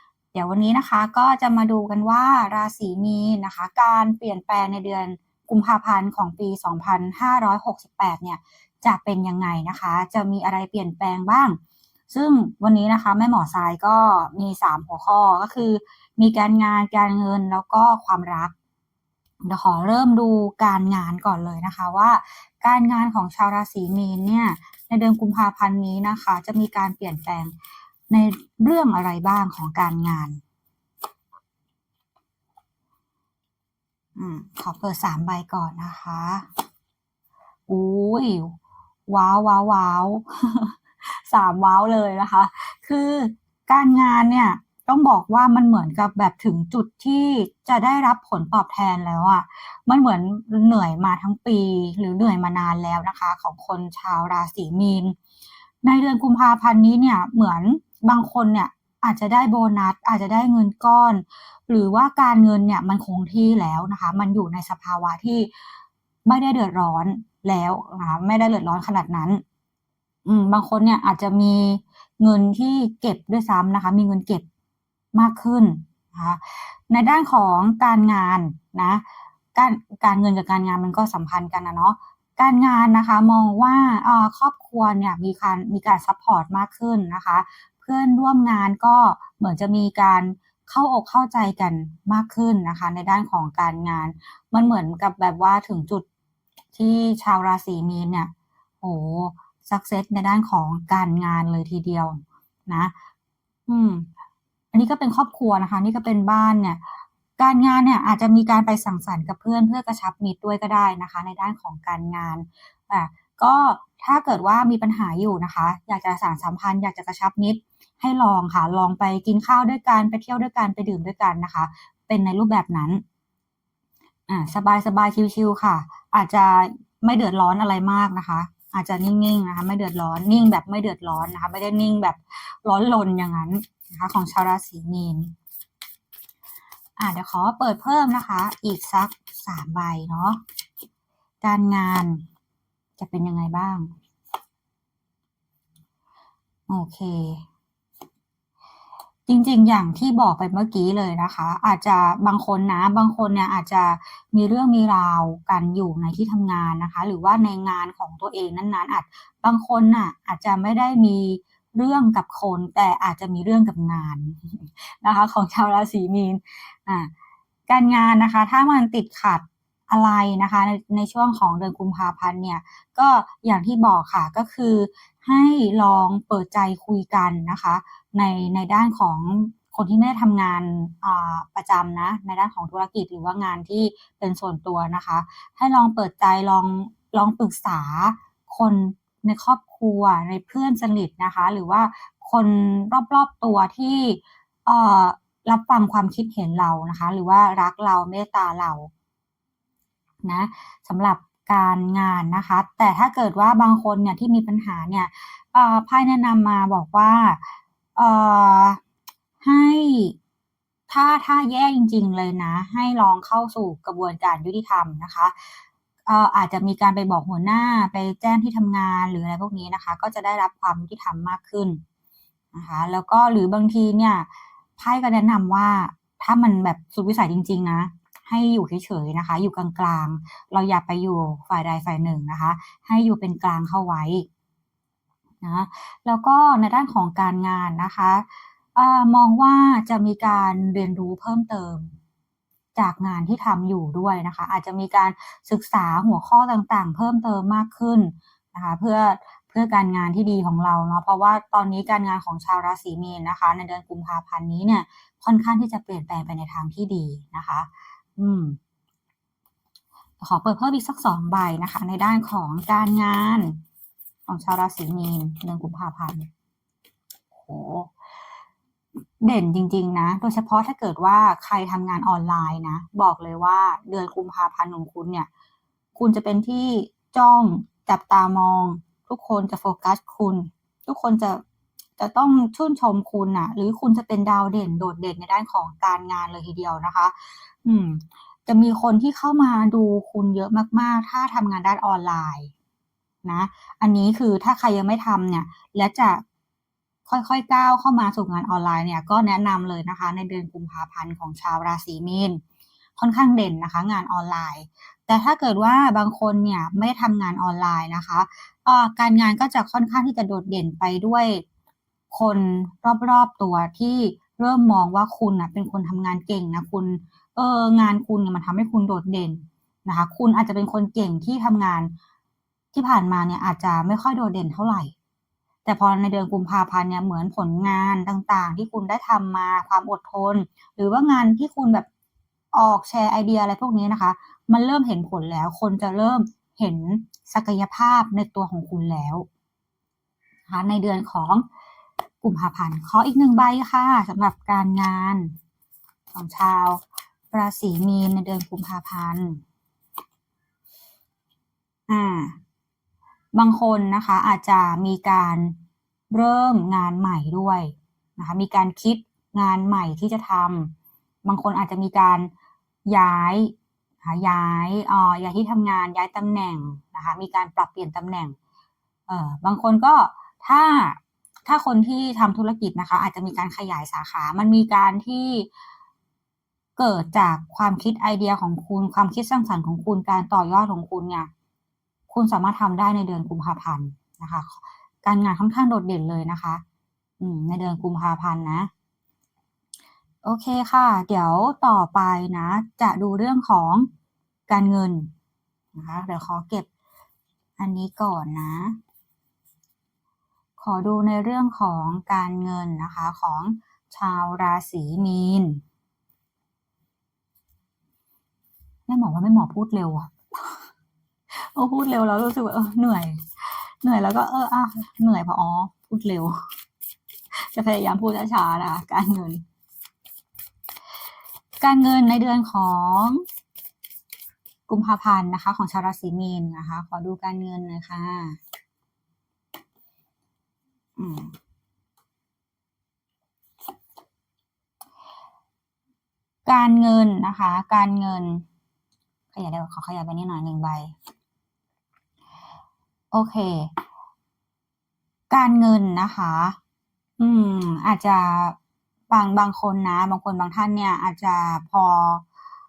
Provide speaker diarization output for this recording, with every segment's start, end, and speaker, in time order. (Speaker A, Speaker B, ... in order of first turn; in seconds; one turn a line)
Speaker A: 0.3-11.6
Speaker A: 12.1-18.5
Speaker A: 19.4-27.5
Speaker A: 28.1-30.4
Speaker A: 34.2-36.5
Speaker A: 37.7-38.5
Speaker A: 39.1-55.1
Speaker A: 55.8-65.5
Speaker A: 66.2-69.4
Speaker A: 70.2-74.5
Speaker A: 75.1-96.0
Speaker A: 96.7-98.3
Speaker A: 98.8-102.9
Speaker A: 103.7-104.1
Speaker A: 104.7-106.9
Speaker A: 107.4-123.0
Speaker A: 124.3-135.3
Speaker A: 137.0-140.4
Speaker A: 141.4-142.2
Speaker A: 143.0-143.9
Speaker A: 146.7-147.4
Speaker A: 149.3-167.1
Speaker A: 167.7-198.9
Speaker A: 200.2-208.8
Speaker A: 209.4-210.2
Speaker A: 210.9-221.8
Speaker A: 222.5-234.3
Speaker A: 235.4-241.9
Speaker A: 242.8-258.6
Speaker A: 260.2-263.6
Speaker A: 264.3-266.3
Speaker A: 267.3-267.9
Speaker A: 269.2-275.3
Speaker A: 275.9-281.4
Speaker A: 282.0-292.5
Speaker A: 293.2-296.2
Speaker A: 297.1-302.4
Speaker A: 303.0-311.4
Speaker A: 312.1-321.9
Speaker A: 322.7-324.9
Speaker A: 325.6-331.9
Speaker A: 332.5-339.2
Speaker A: 340.5-341.4
Speaker A: 342.2-345.3
Speaker A: 346.1-346.8
Speaker A: 347.3-349.4
Speaker A: 351.9-352.4
Speaker A: 353.4-355.6
Speaker A: 356.1-360.7
Speaker A: 361.2-362.3
Speaker A: 362.9-368.4
Speaker A: 369.1-375.5
Speaker A: 376.8-381.3
Speaker A: 382.1-386.6
Speaker A: 387.2-388.7
Speaker A: 390.2-393.9
Speaker A: 394.5-395.1
Speaker A: 395.7-396.7
Speaker A: 397.6-398.8
Speaker A: 400.6-405.6
Speaker A: 408.9-410.6
Speaker A: 411.3-416.4
Speaker A: 417.3-419.4
Speaker A: 421.6-423.2
Speaker A: 424.7-428.4
Speaker A: 431.0-431.3
Speaker A: 436.4-438.4
Speaker A: 439.3-440.9
Speaker A: 443.1-443.7
Speaker A: 445.3-446.6
Speaker A: 447.2-448.6
Speaker A: 449.1-452.2